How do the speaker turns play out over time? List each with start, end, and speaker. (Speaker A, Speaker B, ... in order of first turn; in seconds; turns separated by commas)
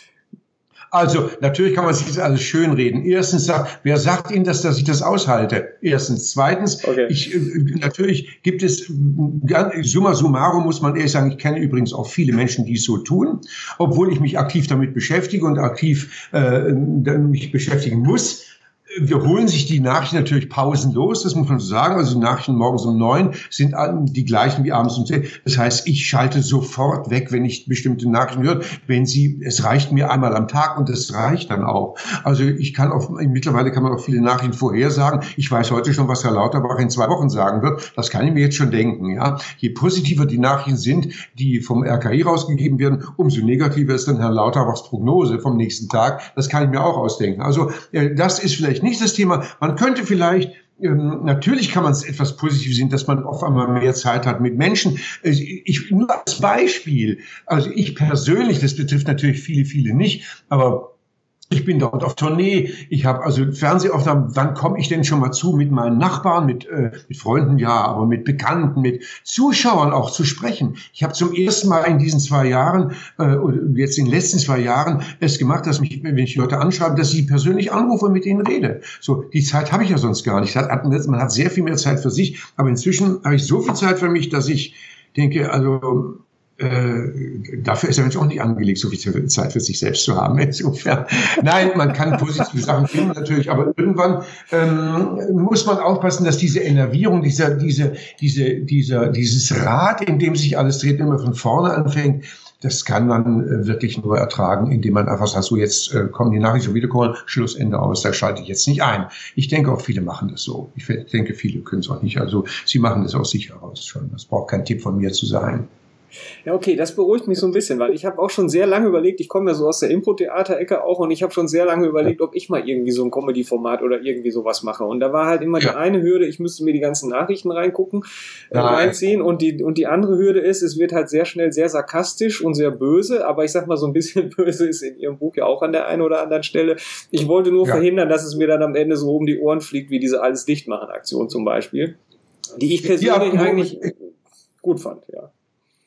Speaker A: 0.9-60.9, Speaker B: 6.8-7.2, Speaker A: 61.5-115.7, Speaker B: 116.5-142.0, Speaker A: 128.5-129.0, Speaker B: 142.6-144.1, Speaker A: 142.9-143.9, Speaker B: 144.6-145.3